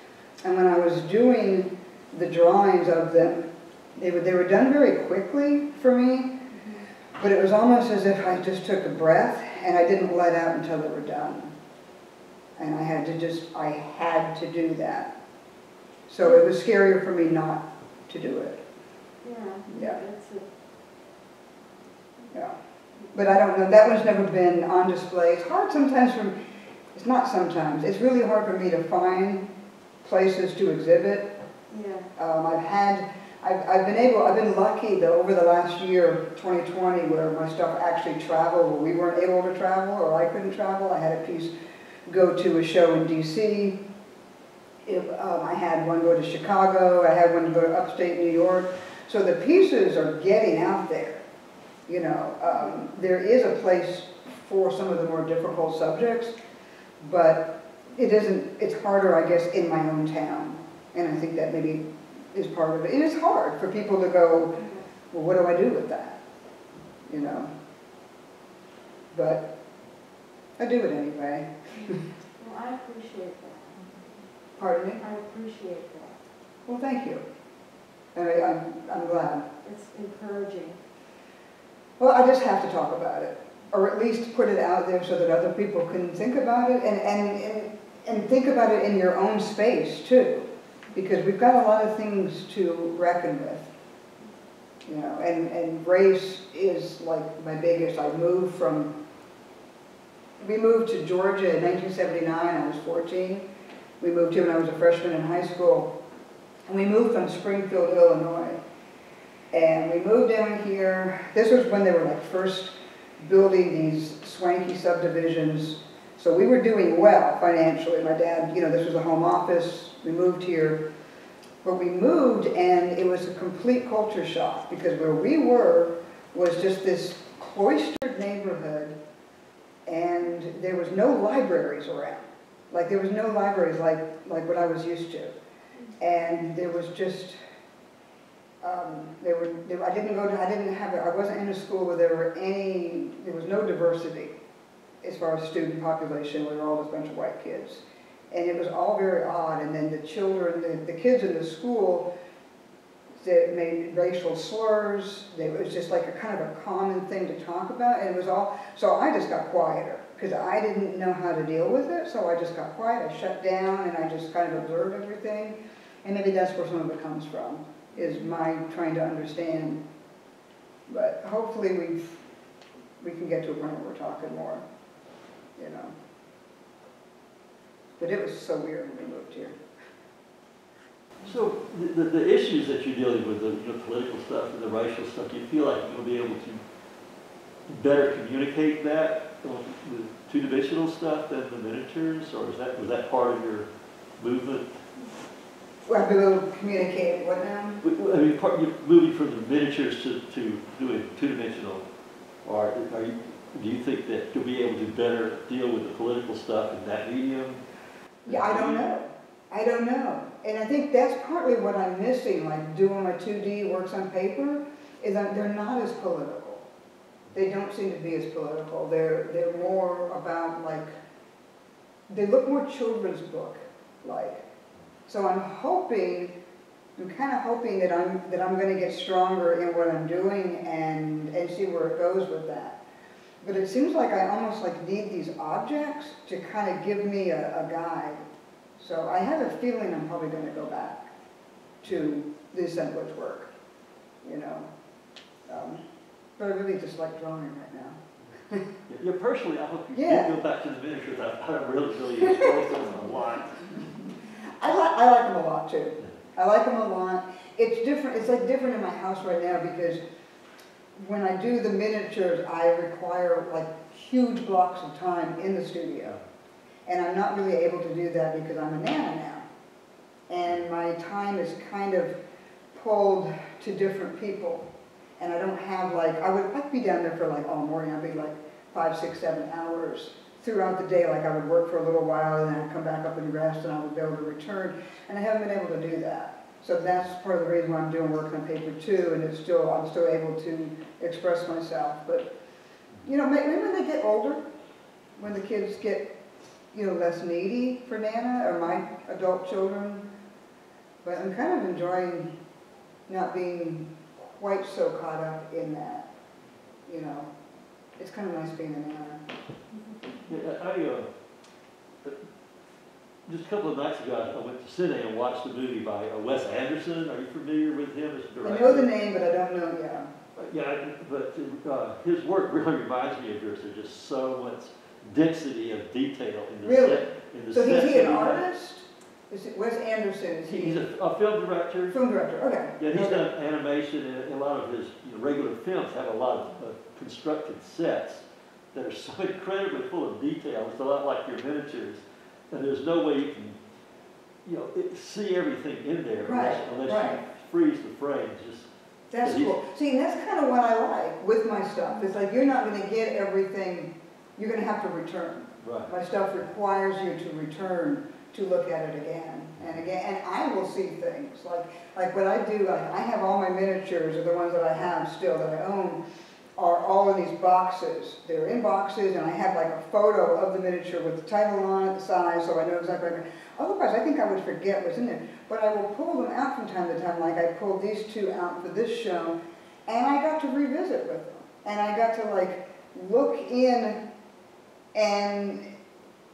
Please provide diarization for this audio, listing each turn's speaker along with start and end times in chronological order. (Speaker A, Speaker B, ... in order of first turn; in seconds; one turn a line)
Speaker A: 0.4-6.4
Speaker A: 7.2-11.5
Speaker A: 12.6-15.1
Speaker A: 16.1-18.6
Speaker B: 19.2-20.4
Speaker A: 19.7-20.0
Speaker A: 23.1-26.3
Speaker A: 26.9-29.5
Speaker A: 30.0-31.3
Speaker B: 31.7-32.1
Speaker A: 32.2-41.5
Speaker A: 42.1-43.8
Speaker A: 44.8-51.2
Speaker A: 51.9-56.3
Speaker A: 57.0-66.2
Speaker A: 67.1-67.5
Speaker A: 69.1-69.5
Speaker A: 70.6-72.0
Speaker B: 72.4-73.8
Speaker A: 74.6-75.0
Speaker B: 75.0-76.2
Speaker A: 76.7-77.2
Speaker A: 78.1-79.5
Speaker B: 79.6-80.8
Speaker A: 82.0-93.7
Speaker A: 94.8-98.9
Speaker A: 100.4-103.5
Speaker A: 104.0-105.9
Speaker A: 106.7-108.6
Speaker A: 109.5-120.8
Speaker A: 121.6-128.9
Speaker A: 129.8-135.3
Speaker A: 136.0-137.4
Speaker A: 138.6-144.3
Speaker A: 145.0-152.1
Speaker A: 153.2-169.8
Speaker A: 170.9-172.2
Speaker A: 173.0-174.6
Speaker A: 175.6-175.9
Speaker A: 178.0-179.6
Speaker C: 181.2-186.6
Speaker C: 187.7-193.7
Speaker C: 194.2-194.7
Speaker A: 195.8-197.8
Speaker C: 197.8-201.8
Speaker C: 202.4-207.6
Speaker A: 208.2-216.6
Speaker C: 208.3-208.8
Speaker A: 217.3-220.9
Speaker A: 222.1-224.4
Speaker A: 225.1-226.3
Speaker A: 227.0-232.8
Speaker A: 233.4-238.2
Speaker A: 238.8-241.1
Speaker A: 241.8-243.5
Speaker A: 244.2-244.7
Speaker A: 245.5-245.8
Speaker A: 246.4-248.0
Speaker C: 248.9-253.8
Speaker A: 249.9-250.3
Speaker A: 254.6-260.0
Speaker A: 260.9-266.2
Speaker A: 266.9-269.4
Speaker A: 270.3-272.2
Speaker A: 272.7-292.3
Speaker A: 293.0-294.4
Speaker A: 295.2-296.1
Speaker A: 296.7-300.0
Speaker A: 301.0-302.3
Speaker A: 303.1-306.1
Speaker A: 306.9-307.3
Speaker A: 308.0-309.2
Speaker C: 310.3-311.1
Speaker C: 313.3-318.9
Speaker A: 318.4-320.1
Speaker C: 320.4-328.4
Speaker A: 326.6-330.8
Speaker C: 330.4-331.9
Speaker A: 331.9-333.2
Speaker C: 332.8-343.6
Speaker C: 344.4-348.7
Speaker A: 346.2-347.2
Speaker A: 349.1-366.0
Speaker C: 349.2-349.5
Speaker C: 355.6-355.9
Speaker A: 366.6-384.0
Speaker A: 384.9-385.7